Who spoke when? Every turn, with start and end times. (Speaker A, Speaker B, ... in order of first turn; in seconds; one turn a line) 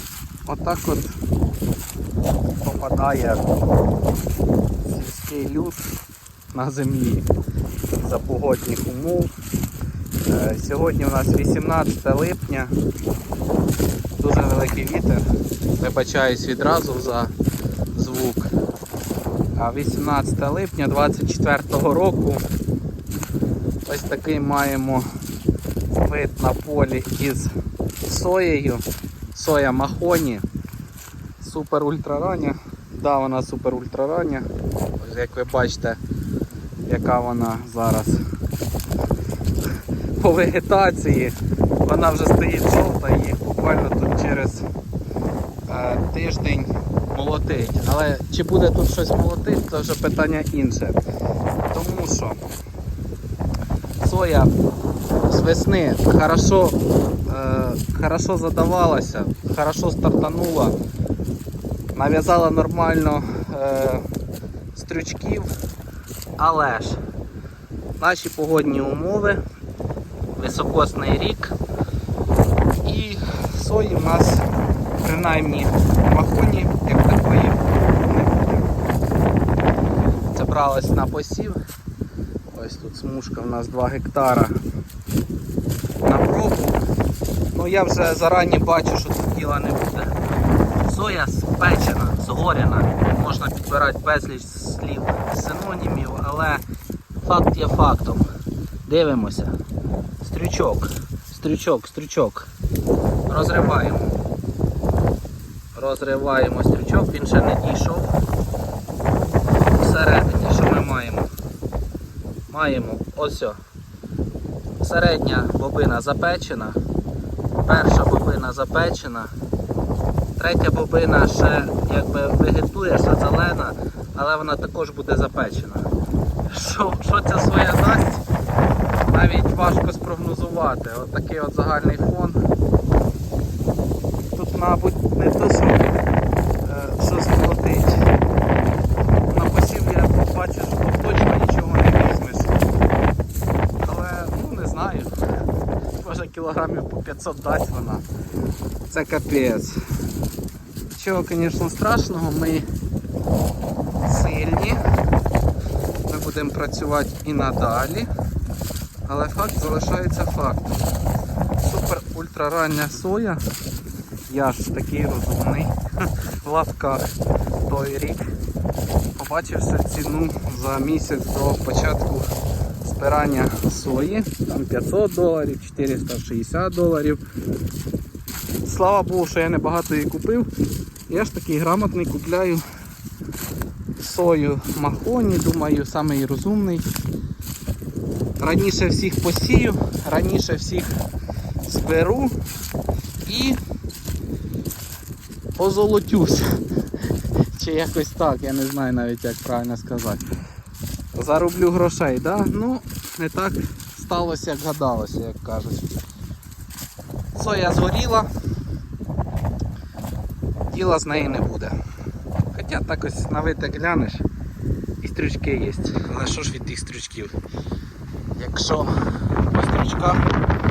Speaker A: 0.4-1.1
Speaker A: 2.6-3.6
Speaker A: 4.8-5.8
Speaker A: 6.5-7.3
Speaker A: 7.9-9.3
Speaker A: 10.2-12.7
Speaker A: 14.2-15.2
Speaker A: 15.8-17.3
Speaker A: 17.9-18.5
Speaker A: 19.5-22.4
Speaker A: 23.9-25.1
Speaker A: 25.9-27.5
Speaker A: 28.1-30.4
Speaker A: 31.4-36.0
Speaker A: 36.9-38.2
Speaker A: 40.1-44.7
Speaker A: 45.7-51.0
Speaker A: 51.7-52.4
Speaker A: 54.0-54.5
Speaker A: 55.2-60.8
Speaker A: 61.9-64.0
Speaker A: 64.7-65.5
Speaker A: 66.4-67.0
Speaker A: 68.0-69.4
Speaker A: 70.3-71.5
Speaker A: 72.8-74.5
Speaker A: 75.0-78.7
Speaker A: 80.3-81.6
Speaker A: 82.5-84.6
Speaker A: 86.0-86.8
Speaker A: 87.5-90.1
Speaker A: 90.8-96.6
Speaker A: 97.2-98.3
Speaker A: 98.8-99.5
Speaker A: 100.2-102.5
Speaker A: 103.3-104.2
Speaker A: 105.7-108.1
Speaker A: 109.7-111.3
Speaker A: 112.5-113.6
Speaker A: 114.8-116.8
Speaker A: 117.6-119.3
Speaker A: 120.4-125.9
Speaker A: 126.5-128.2
Speaker A: 129.1-132.4
Speaker A: 134.3-135.8
Speaker A: 136.6-138.1
Speaker A: 139.3-142.6
Speaker A: 143.8-145.1
Speaker A: 146.0-148.0
Speaker A: 148.9-149.8
Speaker A: 150.9-152.7
Speaker A: 154.0-154.8
Speaker A: 156.1-158.1
Speaker A: 159.1-160.8
Speaker A: 161.6-163.4
Speaker A: 164.3-167.1
Speaker A: 167.7-168.2
Speaker A: 169.2-172.3
Speaker A: 172.8-177.2
Speaker A: 178.6-180.5
Speaker A: 181.1-182.6
Speaker A: 184.0-186.9
Speaker A: 188.4-191.0
Speaker A: 191.6-192.3
Speaker A: 193.2-193.6
Speaker A: 195.6-196.6
Speaker A: 197.5-200.2
Speaker A: 201.1-205.8
Speaker A: 207.3-208.3
Speaker A: 210.7-211.7
Speaker A: 212.5-214.2
Speaker A: 215.0-217.3
Speaker A: 218.3-220.2